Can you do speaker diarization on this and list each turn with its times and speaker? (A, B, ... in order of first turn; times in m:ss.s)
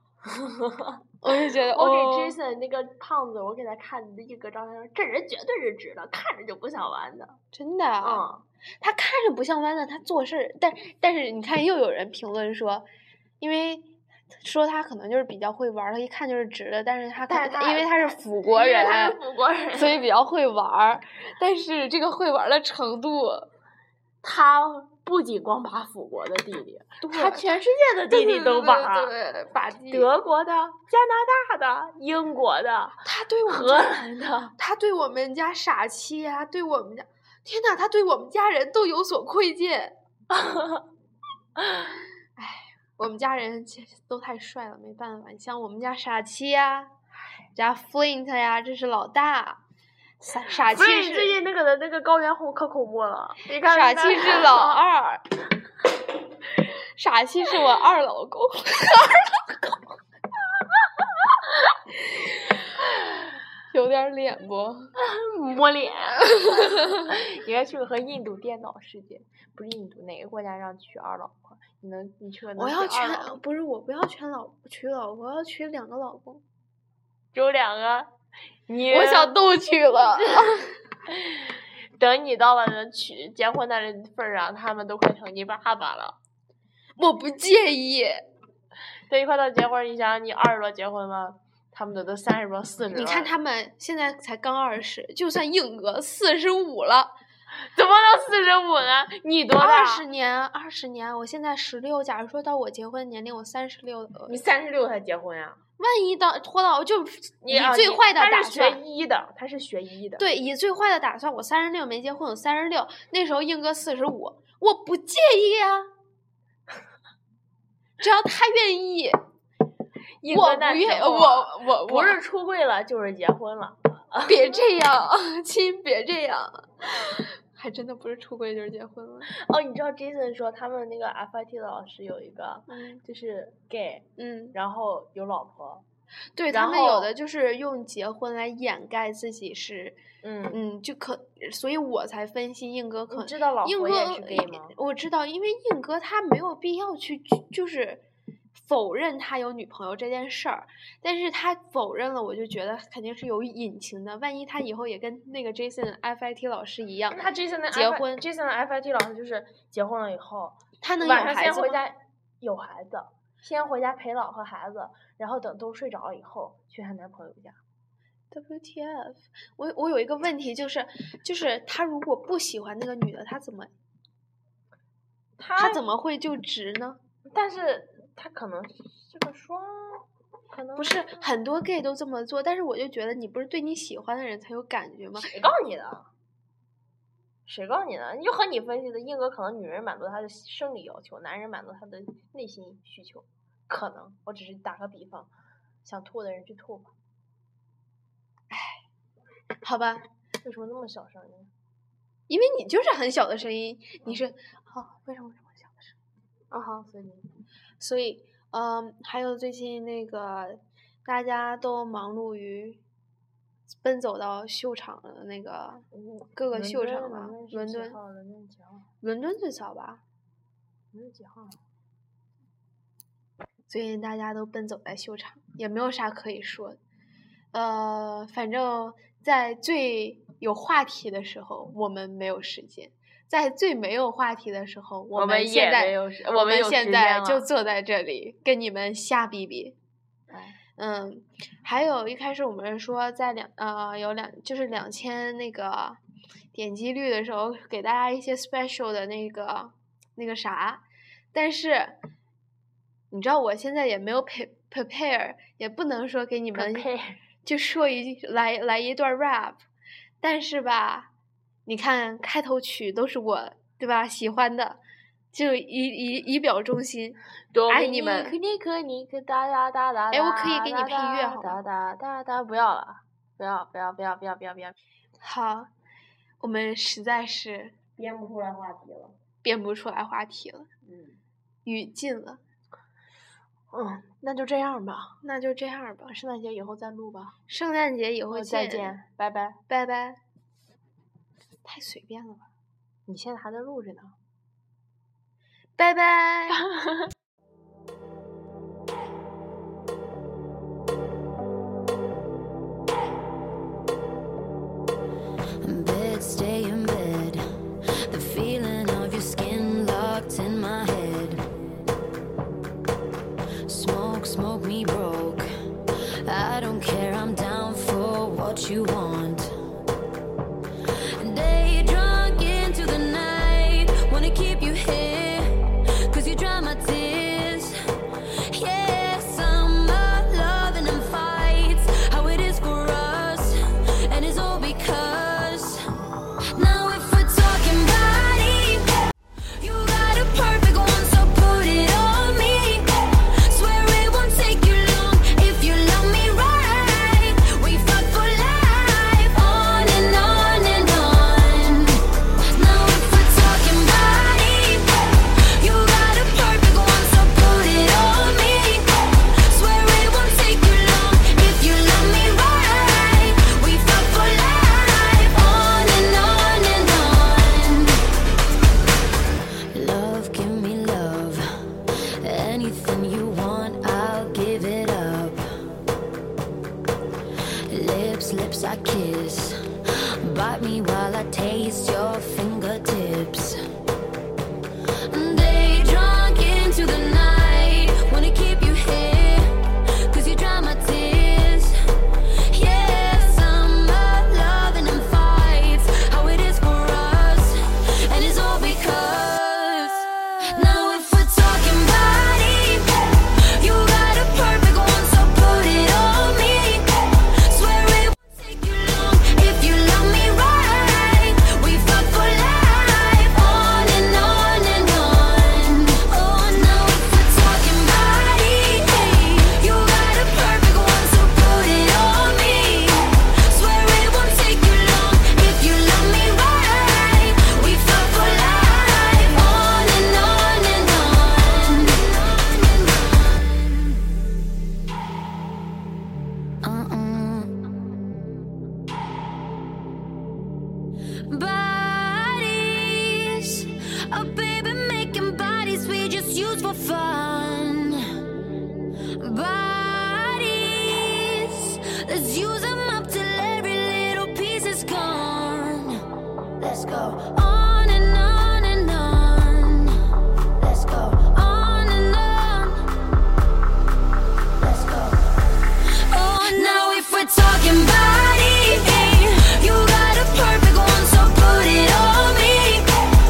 0:00.3-0:01.0 A
0:01.2-0:02.4 B
0:01.7-0:07.4 A
0:07.5-0:08.3 B
0:08.0-0:08.4 A
0:08.8-0:12.9 B
0:13.4-0:13.9 B
0:14.4-0:19.2 B
0:17.3-0:20.0 A
0:19.7-0:23.5 B
0:24.2-0:29.1 A
0:27.0-0:27.6 B
0:28.1-0:30.1 B
0:29.9-0:34.5 A
0:33.0-0:34.0 B
0:34.6-0:39.9 B
0:40.3-0:40.8 A
0:41.6-0:41.9 A
0:42.4-0:46.9 B
0:47.5-0:49.6 B
0:50.2-0:51.4 B
0:50.6-0:54.8 A
0:53.6-0:55.2 B
0:57.0-0:59.6 B
1:03.7-1:04.9 B
1:05.0-1:13.4 A
1:06.4-1:07.0 B
1:12.6-1:16.4 B
1:17.3-1:18.1 A
1:18.7-1:19.4 A
1:18.9-1:20.7 B
1:21.1-1:26.2 A
1:27.0-1:28.2 B
1:29.1-1:33.3 A
1:32.9-1:37.2 B
1:37.6-1:40.0 A
1:39.6-1:44.4 B
1:44.3-1:45.6 A
1:45.8-1:48.8 B
1:47.4-1:50.3 A
1:50.2-1:55.9 B
1:58.0-1:59.2 B
2:00.2-2:04.6 A
2:00.3-2:02.2 B
2:04.3-2:09.3 B
2:09.3-2:15.8 A
2:12.7-2:13.0 B
2:14.2-2:14.6 B
2:16.4-2:20.0 B
2:16.5-2:17.1 A
2:20.2-2:20.6 A
2:20.5-2:28.0 B
2:23.1-2:24.8 A
2:28.6-2:38.2 B
2:37.1-2:47.6 A
2:40.8-2:41.8 B
2:48.3-2:53.7 B
2:55.4-2:55.8 A
2:55.6-2:57.0 B
2:57.3-3:01.2 A
3:00.8-3:05.3 B
3:05.2-3:06.1 A
3:07.5-3:15.3 A
3:15.8-3:16.9 A
3:18.5-3:18.8 B
3:19.6-3:20.0 B
3:20.4-3:21.5 A
3:22.3-3:26.0 B
3:26.5-3:27.3 A
3:27.8-3:32.8 B
3:33.7-3:38.0 B
3:35.9-3:38.9 A
3:39.0-3:40.0 B
3:40.9-3:41.6 A
3:43.7-3:46.8 B
3:47.5-3:59.8 B
3:55.1-3:57.5 A
4:00.3-4:00.6 A
4:00.8-4:06.0 B
4:06.5-4:12.0 B
4:13.1-4:16.9 B
4:16.6-4:17.2 A
4:17.4-4:19.6 B
4:20.2-4:21.1 B
4:21.7-4:24.8 B
4:25.3-4:27.2 B
4:27.5-4:34.8 A
4:27.7-4:28.4 B
4:30.1-4:31.6 B
4:35.2-4:35.7 B
4:36.4-4:37.7 B
4:38.0-4:39.2 A
4:39.4-4:40.7 B
4:40.8-4:41.2 A
4:41.6-4:42.4 B
4:43.7-4:45.2 A
4:45.2-4:46.1 B
4:46.1-4:47.4 A
4:47.5-4:49.0 B
4:48.3-4:49.6 A
4:49.7-4:50.2 B
4:51.6-4:52.5 B
4:53.1-4:54.2 A
4:55.8-4:56.6 B
4:56.5-4:57.1 A
5:05.6-5:07.4 C
5:08.1-5:11.4 C
5:13.7-5:15.5 C
5:16.2-5:19.5 C
5:21.2-5:27.8 C
5:28.5-5:35.8 C
5:36.6-5:38.9 C
5:39.6-5:42.9 C
5:43.5-5:52.0 C
5:52.5-5:58.9 C
5:59.4-6:08.0 C
6:09.7-6:11.4 C
6:12.2-6:15.4 C
6:17.7-6:19.6 C
6:20.2-6:23.6 C
6:25.1-6:31.8 C
6:32.5-7:14.0 C
7:16.6-7:17.6 C
7:21.3-7:28.0 C
7:29.2-7:36.0 C
7:36.6-7:40.0 C
7:40.6-7:42.9 C
7:44.6-7:45.3 C
7:46.1-7:52.9 C